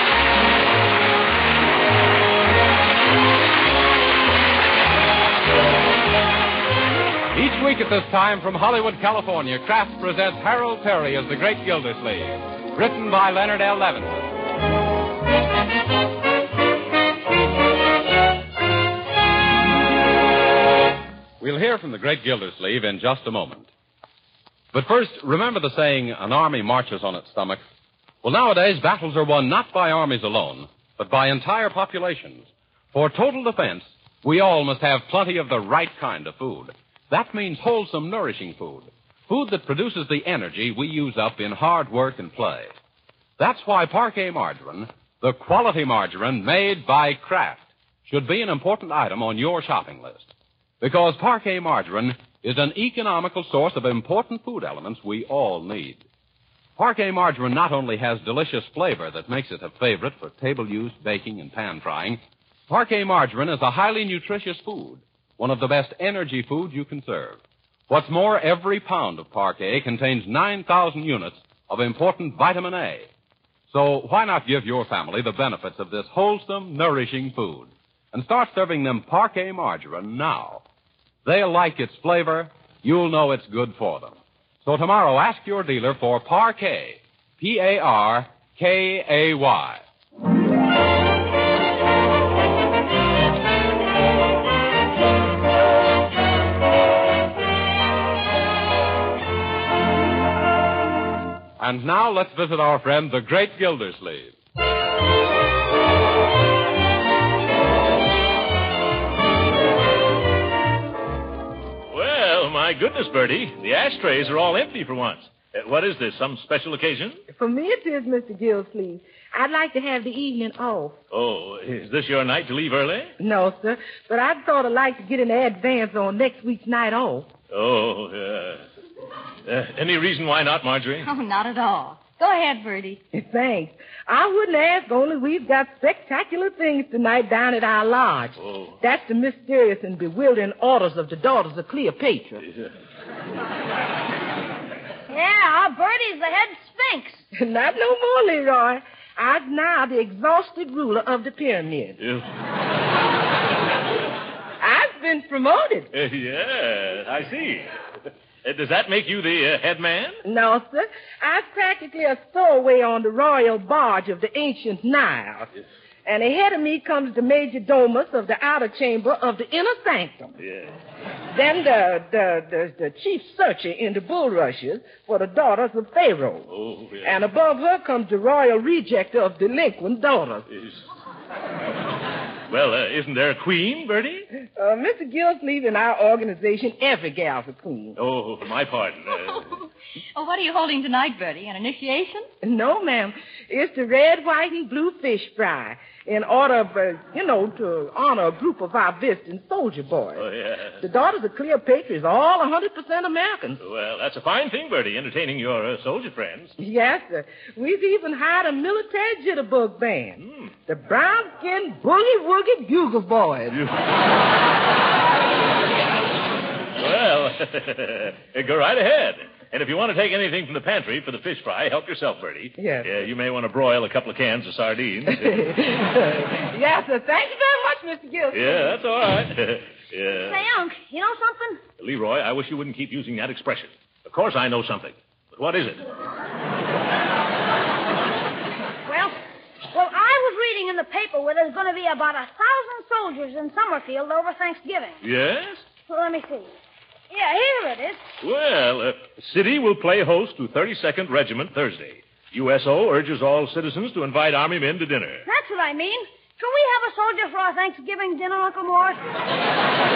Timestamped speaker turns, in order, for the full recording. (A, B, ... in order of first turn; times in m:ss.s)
0:07.3-0:14.3 A
0:21.4-0:23.7 A
0:24.7-0:27.6 A
0:28.2-0:42.7 A
0:43.4-0:50.3 A
0:50.8-0:56.0 A
0:56.8-1:13.1 A
1:13.7-1:20.6 A
1:21.2-1:29.8 A
1:41.6-1:44.3 A
1:51.9-1:57.2 B
1:57.3-2:01.0 C
2:01.1-2:03.1 B
2:03.2-2:07.3 C
2:07.5-2:08.6 B
2:09.5-2:11.1 B
2:11.0-2:13.0 D
2:13.1-2:22.4 C
2:18.4-2:18.7 B
2:25.1-2:27.2 E
2:27.4-2:32.0 C
2:34.6-2:35.9 C
2:35.9-2:37.7 B
2:38.4-2:40.2 B
2:40.2-2:45.5 C
2:46.1-2:50.4 C
2:50.4-2:50.7 B
2:51.3-2:56.5 C
2:56.5-2:57.2 B
2:57.0-3:00.5 C
3:00.5-3:00.8 B
3:02.5-3:04.3 B
3:04.6-3:08.0 C
3:08.0-3:09.5 B
3:10.2-3:12.3 D
3:12.4-3:20.2 C
3:20.2-3:20.8 B
3:20.8-3:23.6 C
3:23.6-3:26.5 B
3:26.6-3:33.6 C
3:30.2-3:30.5 B
3:36.8-3:45.4 B
3:42.6-3:42.9 C
3:45.1-3:48.8 C
3:48.3-3:50.4 B
3:50.2-3:51.6 E
3:51.8-3:55.9 B
3:58.9-3:59.2 E
3:59.7-4:05.0 E
4:05.0-4:05.6 B
4:05.9-4:06.5 E
4:07.1-4:08.0 E
4:08.2-4:15.2 B
4:15.3-4:19.0 E